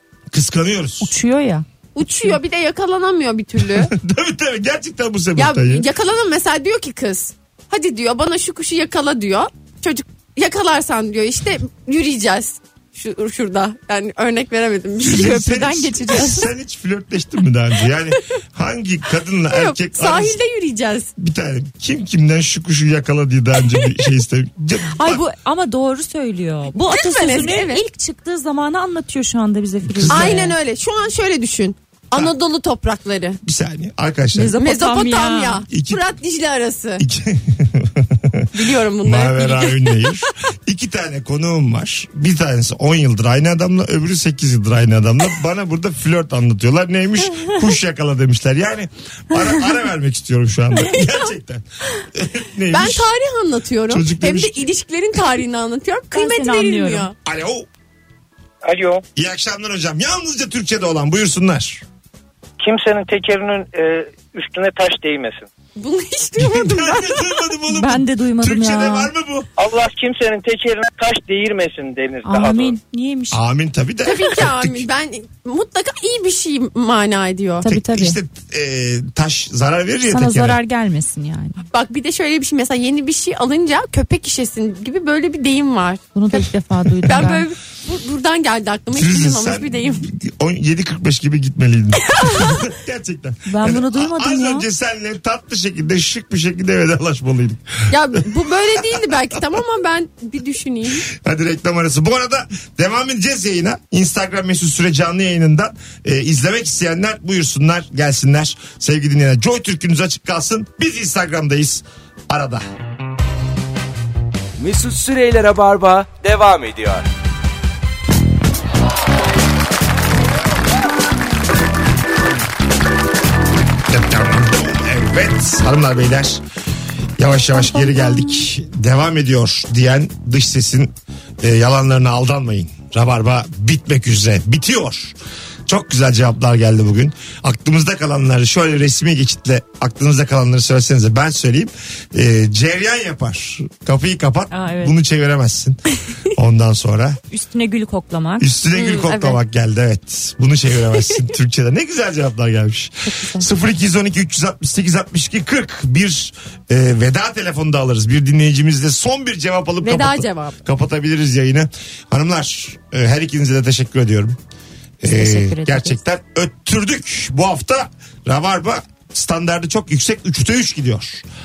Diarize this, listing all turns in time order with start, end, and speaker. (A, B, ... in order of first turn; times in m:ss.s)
0:00.3-0:01.1 A
0:01.0-0:01.6 B
0:01.9-0:03.9 C
0:03.6-0:05.9 A
0:05.4-0:15.4 C
0:15.0-0:20.4 A
0:15.0-0:16.5 B
0:19.5-0:21.1 C
0:21.2-0:25.2 A
0:25.0-0:30.6 B
0:26.8-0:27.8 C
0:29.8-0:30.5 A
0:30.1-0:33.4 C
0:33.4-0:34.6 A
0:34.3-0:35.6 B
0:34.6-0:37.0 C
0:35.7-0:36.0 A
0:37.0-0:38.5 A
0:38.5-0:40.1 C
0:39.0-0:53.1 A
0:52.7-0:57.1 C
0:53.9-0:54.7 A
0:56.1-0:57.1 B
0:57.2-0:57.7 A
0:58.6-0:59.0 D
0:59.1-1:01.8 A
1:02.6-1:05.5 D
1:05.8-1:07.4 C
1:06.4-1:09.5 A
1:07.7-1:09.1 B
1:09.6-1:12.8 D
1:12.2-1:13.4 B
1:13.3-1:14.9 A
1:14.0-1:17.7 C
1:17.6-1:18.2 B
1:17.6-1:20.6 A
1:20.1-1:21.6 B
1:21.7-1:26.5 C
1:26.1-1:27.5 B
1:27.0-1:30.0 C
1:28.9-1:38.0 A
1:32.2-1:32.5 C
1:33.5-1:34.6 B
1:37.9-1:41.0 C
1:38.8-1:39.1 A
1:41.1-1:52.6 A
1:54.6-1:57.0 E
2:03.9-2:06.4 A
2:07.2-2:15.1 A
2:07.7-2:08.5 B
2:15.7-2:25.8 A
2:24.5-2:24.9 B
2:26.3-2:27.2 A
2:27.3-2:28.4 B
2:28.4-2:44.4 A
2:28.7-2:29.4 C
2:33.0-2:33.4 B
2:39.8-2:40.6 C
2:45.0-2:51.2 A
2:45.1-2:46.0 B